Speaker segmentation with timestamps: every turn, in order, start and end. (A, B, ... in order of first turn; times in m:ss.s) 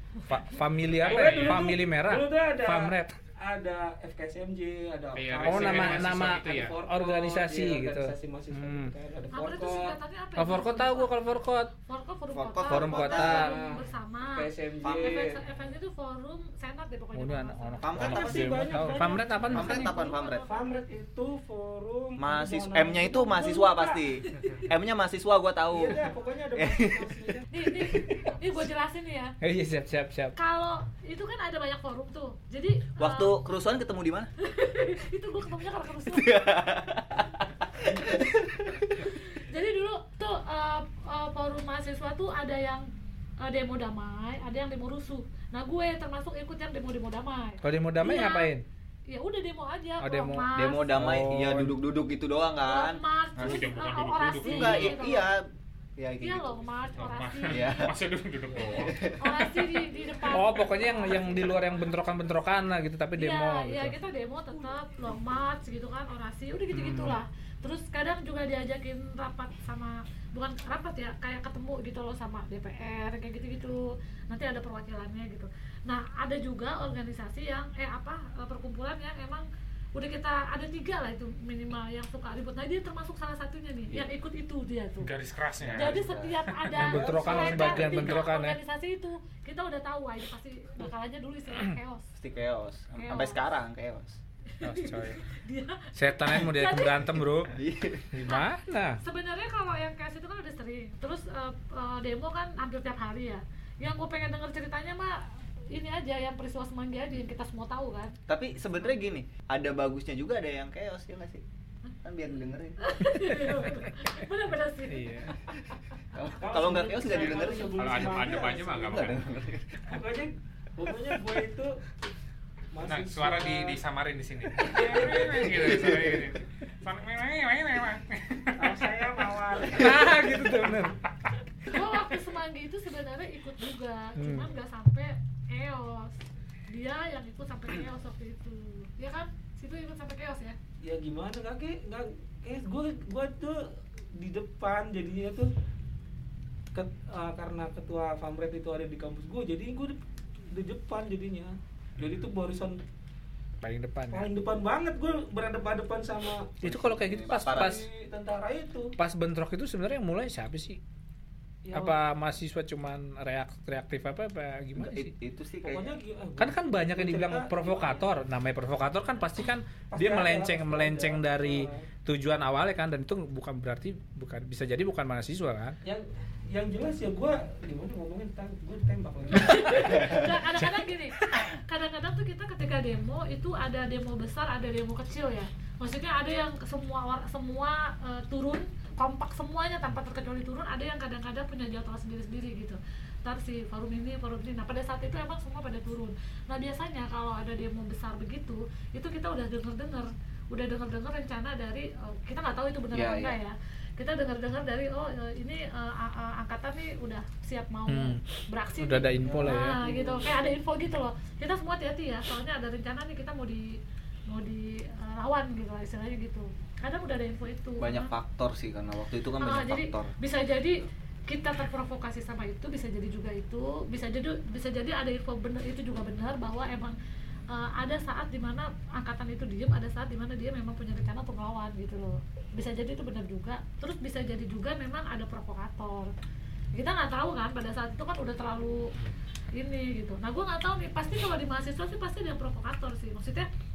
0:00.3-0:03.1 A
0:01.0-0:10.0 B
0:01.0-0:01.6 C
0:05.1-0:06.8 C
0:05.4-0:08.9 A
0:09.3-0:11.2 D
0:10.4-0:11.7 A
0:11.8-0:18.0 D
0:12.3-0:13.5 E
0:12.7-0:13.5 A
0:13.1-0:15.4 B
0:14.8-0:15.3 E
0:17.1-0:20.0 A
0:17.8-0:18.8 E
0:18.0-0:24.0 B
0:19.4-0:20.8 D
0:19.5-0:20.5 E
0:22.2-0:26.0 E
0:25.7-0:27.5 B
0:26.5-0:27.1 E
0:27.5-0:29.4 D
0:29.4-0:30.3 A
0:30.3-0:33.3 D
0:33.0-0:34.3 E
0:34.4-0:36.5 D
0:36.1-0:39.0 E
0:37.9-0:38.3 B
0:39.0-0:42.9 D
0:43.4-0:48.5 D
0:47.6-0:48.6 A
0:49.1-0:51.0 D
0:50.0-0:51.8 A
0:50.5-0:53.6 E
0:52.6-0:55.3 D
0:53.4-0:55.0 C
0:54.4-0:55.4 E
0:56.0-0:56.6 E
0:56.2-0:57.8 D
0:57.0-0:59.0 C
0:57.5-0:58.0 E
0:58.4-0:59.0 B
0:58.7-0:59.8 E
0:59.2-1:01.6 D
1:00.3-1:04.0 A
1:00.9-1:01.8 B
1:03.2-1:25.1 D
1:06.7-1:07.2 A
1:25.0-1:26.6 C
1:25.6-1:26.4 E
1:25.7-1:32.1 D
1:26.7-1:28.6 A
1:26.8-1:28.2 B
1:32.2-1:34.2 E
1:33.0-1:33.4 D
1:34.5-1:37.1 D
1:34.6-1:35.2 A
1:35.9-1:37.5 A
1:37.5-1:38.1 E
1:38.1-1:39.0 A
1:38.2-1:38.5 D
1:39.0-1:48.2 D
1:48.3-1:51.4 E
1:52.0-1:53.0 E
1:52.8-1:55.3 D
1:53.4-1:53.8 A
1:54.9-1:55.4 A
1:56.1-1:57.8 E
1:56.4-1:59.0 B
1:57.8-1:59.4 C
1:58.6-1:59.9 E
1:59.8-2:01.8 B
2:02.7-2:03.8 B
2:02.8-2:08.8 C
2:04.6-2:05.9 B
2:05.5-2:06.2 E
2:08.6-2:10.9 B
2:09.7-2:11.0 A
2:11.6-2:20.6 D
2:14.2-2:14.5 A
2:20.8-2:25.5 B
2:26.7-2:32.8 B
2:33.6-2:34.3 A
2:34.1-2:36.7 B
2:36.6-2:37.8 A
2:36.6-2:37.8 E
2:37.4-2:38.9 B
2:39.0-2:40.8 A
2:41.6-2:42.0 B
2:41.7-2:45.1 A
2:44.8-2:46.0 E
2:45.6-2:48.1 B
2:46.4-2:55.8 A
2:49.9-2:51.8 B
2:55.8-3:00.2 B
2:59.3-3:38.1 D
2:59.5-3:01.5 A
3:22.9-3:23.4 E
3:27.9-3:28.2 A
3:28.8-3:29.8 A
3:29.2-3:30.5 B
3:37.8-3:40.1 E
3:39.4-3:47.0 D
3:47.5-3:56.1 D
3:56.7-3:58.9 D
3:59.5-4:03.5 D